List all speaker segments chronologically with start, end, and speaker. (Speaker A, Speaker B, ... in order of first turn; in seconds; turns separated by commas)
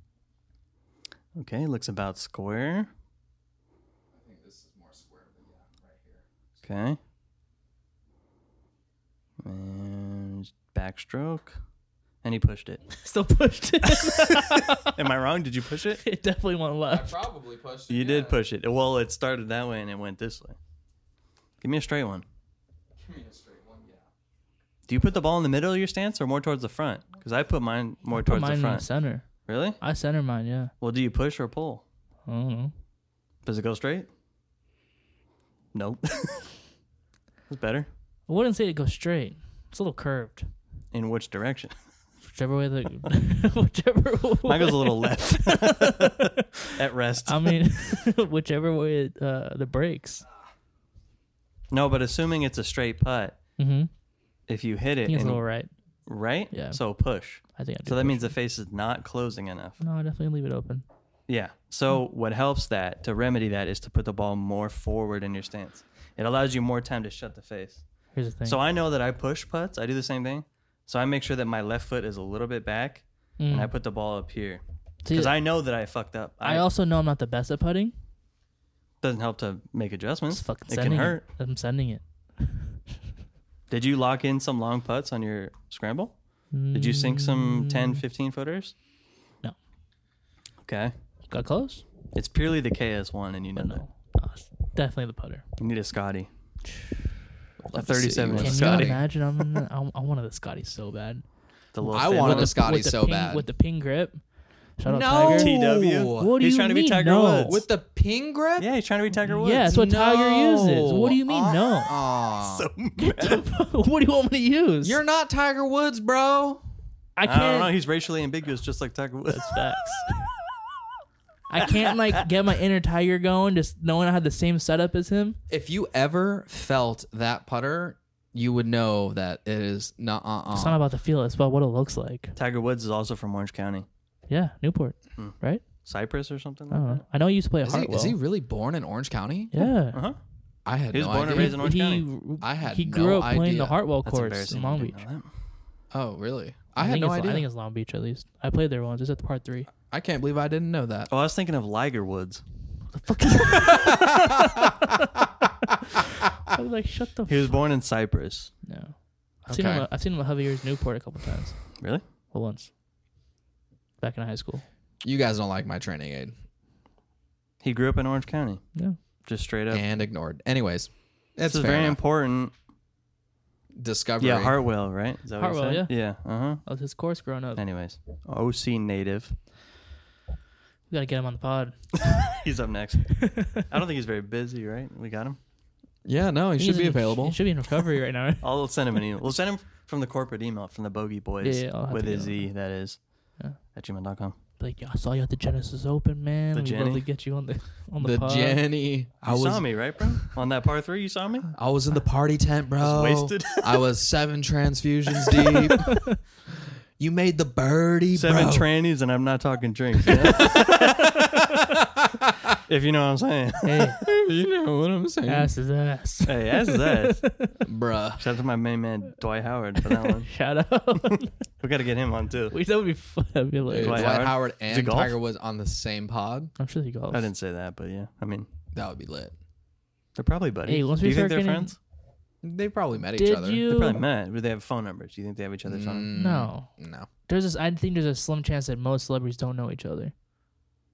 Speaker A: 1.4-2.9, Speaker B: 4.1-6.2, Speaker A: 6.6-7.0, Speaker A: 9.4-11.6, Speaker A: 12.2-12.8, Speaker C: 13.0-14.9, Speaker A: 13.8-16.0, Speaker C: 16.0-17.3, Speaker B: 16.9-18.4, Speaker A: 17.9-20.6, Speaker A: 21.6-22.2, Speaker B: 23.0-24.1, Speaker A: 24.9-28.9, Speaker C: 28.1-29.3, Speaker A: 29.5-29.8, Speaker C: 29.8-30.7, Speaker A: 30.8-31.8, Speaker C: 32.3-32.7, Speaker A: 33.5-34.1, Speaker A: 35.7-36.5, Speaker A: 37.5-37.9, Speaker C: 38.3-40.5, Speaker A: 40.9-41.8, Speaker C: 42.3-46.7, Speaker A: 44.5-47.6, Speaker C: 47.3-50.2, Speaker A: 51.7-53.4, Speaker C: 53.6-53.9, Speaker A: 54.5-55.4, Speaker C: 55.1-55.7, Speaker A: 56.1-59.8, Speaker C: 56.5-56.8, Speaker C: 57.5-58.3, Speaker C: 59.8-60.9, Speaker A: 61.3-67.8, Speaker C: 68.2-68.6, Speaker A: 68.5-76.7, Speaker C: 73.4-73.7, Speaker C: 75.0-75.3, Speaker C: 76.4-77.9, Speaker A: 79.0-81.2, Speaker C: 80.3-82.6, Speaker A: 83.7-86.2, Speaker C: 86.5-88.0, Speaker A: 86.7-88.8, Speaker A: 90.6-90.9, Speaker C: 91.3-91.8, Speaker A: 92.1-93.8, Speaker C: 93.6-95.4, Speaker A: 95.6-96.3, Speaker A: 97.7-99.0, Speaker C: 97.8-101.2, Speaker B: 98.1-99.1, Speaker A: 101.7-102.6, Speaker C: 101.8-104.2, Speaker B: 101.9-103.5, Speaker C: 104.8-105.5, Speaker B: 104.8-106.3, Speaker A: 105.2-107.6, Speaker C: 106.2-107.6, Speaker B: 107.5-108.7, Speaker A: 108.6-109.7, Speaker C: 109.3-111.9, Speaker B: 109.7-112.7, Speaker A: 112.4-113.4, Speaker C: 113.0-115.0, Speaker B: 114.8-116.6, Speaker C: 117.2-117.7, Speaker A: 117.3-119.8, Speaker C: 119.3-120.3, Speaker C: 121.5-125.4, Speaker B: 125.5-130.8, Speaker C: 130.5-132.3, Speaker A: 132.4-133.9, Speaker C: 134.3-135.6, Speaker A: 135.2-137.0, Speaker C: 136.7-138.2, Speaker B: 137.6-139.5, Speaker C: 139.5-140.0, Speaker A: 139.6-140.2, Speaker B: 140.7-141.7, Speaker A: 140.9-142.1, Speaker C: 141.3-145.0, Speaker B: 142.4-143.8, Speaker A: 144.1-145.3, Speaker B: 145.9-147.4, Speaker C: 146.8-149.7, Speaker B: 149.9-151.1, Speaker A: 151.1-152.4, Speaker C: 152.9-155.0, Speaker B: 153.6-154.9, Speaker C: 156.5-157.6, Speaker A: 157.3-158.5, Speaker C: 158.7-161.8, Speaker B: 159.4-159.9, Speaker A: 161.8-162.0, Speaker C: 162.3-162.7, Speaker C: 164.0-164.6, Speaker B: 165.0-166.3, Speaker A: 167.6-168.6, Speaker A: 169.2-169.9, Speaker B: 169.7-172.0, Speaker A: 171.5-172.5, Speaker B: 173.8-174.6, Speaker A: 174.2-176.7, Speaker C: 175.4-175.9, Speaker C: 176.7-177.6, Speaker A: 177.6-179.4, Speaker C: 180.9-181.8, Speaker A: 182.1-185.4, Speaker C: 183.2-183.5, Speaker B: 186.1-187.4, Speaker C: 186.6-188.5, Speaker A: 188.4-194.4, Speaker C: 191.4-192.5, Speaker C: 194.6-198.6, Speaker A: 196.5-197.1, Speaker B: 198.0-199.8, Speaker A: 199.2-201.5, Speaker B: 201.5-206.0, Speaker A: 202.8-203.9, Speaker A: 205.3-205.6, Speaker B: 207.0-208.7, Speaker A: 208.1-211.2, Speaker B: 210.2-212.5, Speaker A: 212.7-213.9, Speaker C: 213.6-214.0, Speaker B: 214.0-215.5, Speaker C: 215.3-217.6, Speaker A: 216.3-217.2, Speaker B: 217.6-218.2, Speaker A: 218.2-220.3, Speaker C: 219.8-221.3, Speaker A: 221.1-222.6, Speaker C: 222.5-224.1, Speaker B: 223.7-226.5, Speaker A: 223.8-225.2, Speaker C: 226.6-227.3, Speaker A: 227.1-228.5, Speaker B: 228.8-229.3, Speaker A: 230.2-231.8, Speaker C: 230.7-231.8, Speaker B: 232.4-233.7, Speaker C: 233.2-234.0, Speaker A: 233.7-236.1, Speaker B: 235.7-237.1, Speaker C: 236.2-236.7, Speaker C: 237.3-240.1